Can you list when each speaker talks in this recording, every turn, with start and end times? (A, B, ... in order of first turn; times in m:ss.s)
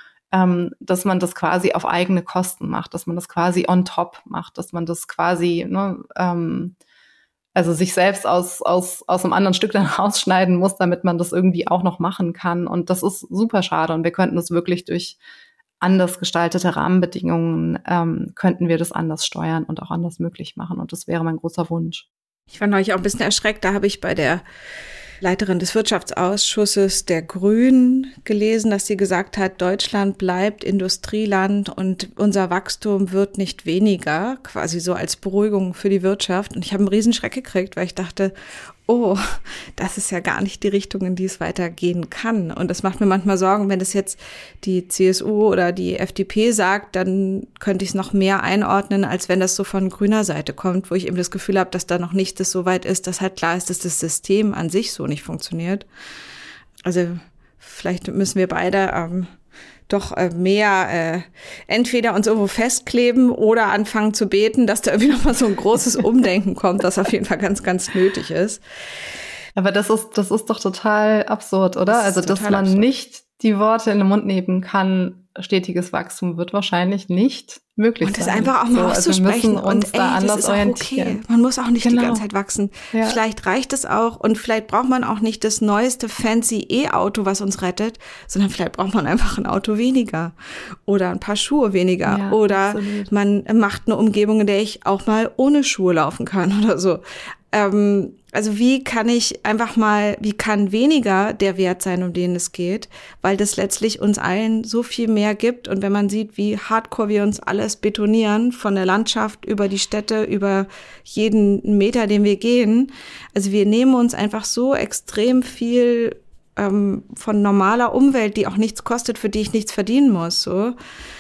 0:00.3-0:06.8 A
0:07.6-0:15.2 A
0:15.8-0:22.1 A
0:22.5-0:24.4 B
0:25.2-0:38.3 B
0:38.9-0:55.9 B
0:56.8-0:59.3 B
0:59.9-1:08.6 B
1:09.6-1:21.2 A
1:11.9-1:12.8 B
1:18.0-1:30.3 B
1:21.8-1:22.2 A
1:22.9-1:23.2 A
1:30.9-2:00.8 B
1:32.1-1:33.1 A